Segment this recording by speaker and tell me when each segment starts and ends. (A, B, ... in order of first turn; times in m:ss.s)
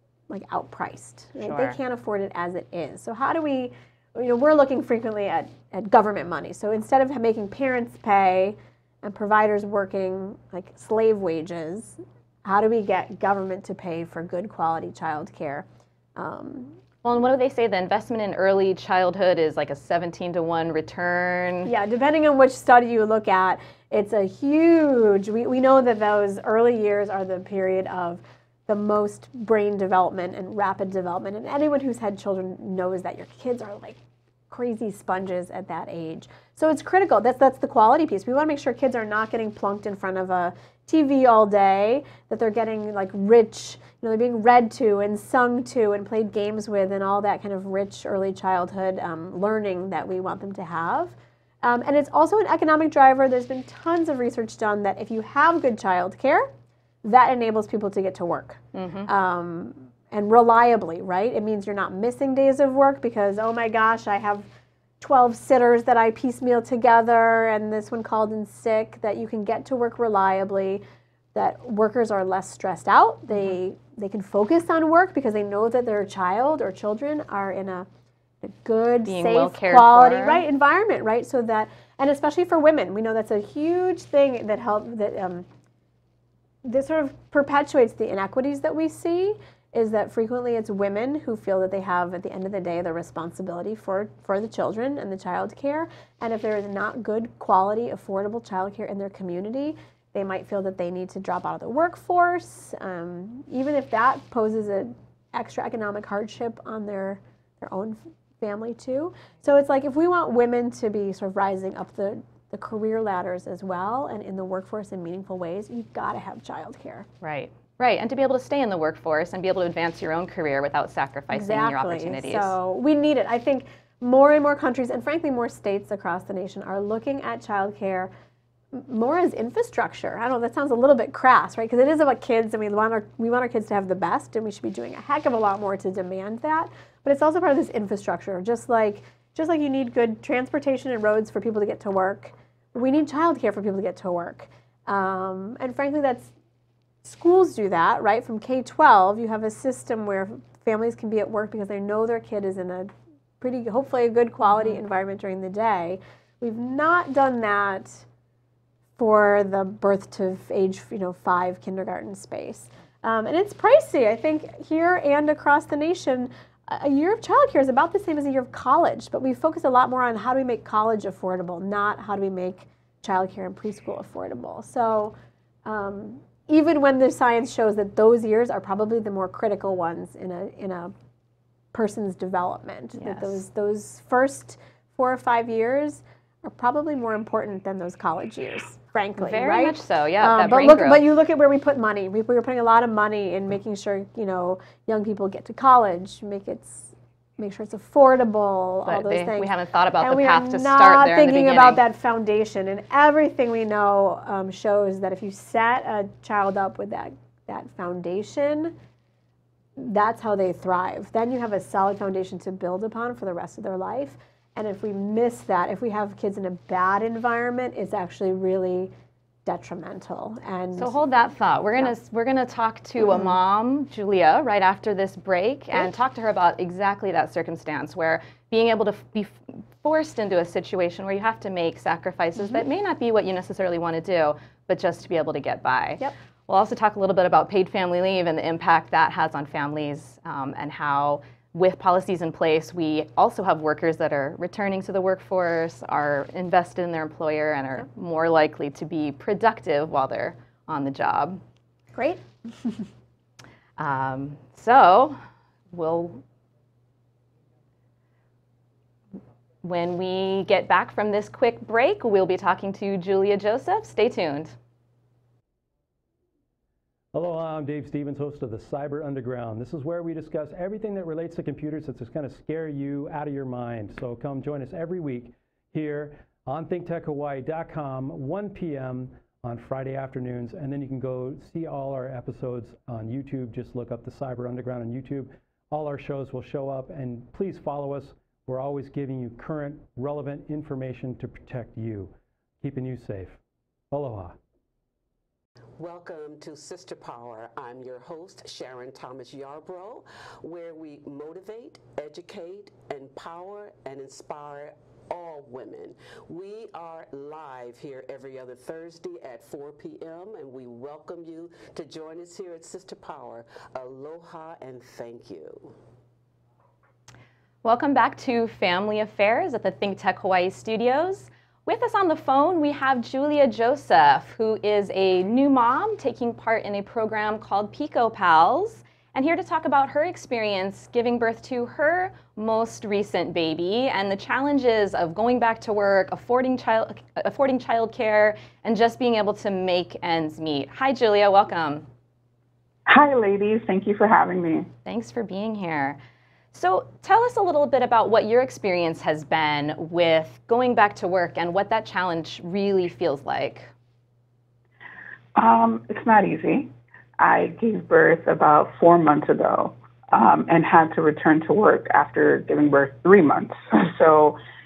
0:00.3-0:16.8 A
0:01.4-0:01.8 B
0:17.0-0:21.7 B
0:21.6-0:56.5 A
0:57.0-1:04.5 A
0:58.7-0:59.1 B
1:05.0-1:10.8 A
1:11.3-1:17.9 A
1:18.4-1:25.5 A
1:19.0-1:20.4 B
1:26.6-1:57.1 A
1:57.2-2:02.5 B
2:01.3-2:08.1 A
2:08.7-2:26.3 A
2:27.0-2:38.0 A
2:39.0-2:55.1 A
2:55.6-3:00.9 A
3:01.7-3:28.7 A
3:03.0-3:03.4 B
3:09.2-3:11.0 B
3:18.8-3:21.8 B
3:29.8-3:38.9 A
3:39.4-3:41.0 A
3:40.8-4:11.4 B
3:52.4-3:52.6 A
4:11.9-4:12.8 A
4:13.8-4:15.2 B
4:15.7-4:16.2 B
4:19.6-4:24.5 B
4:27.1-4:53.4 C
4:53.9-4:54.4 C
4:55.8-5:15.8 D
5:17.6-5:41.8 B
5:42.8-5:44.7 E
5:44.8-5:46.0 B
5:46.5-5:53.7 B
5:55.4-6:04.4 E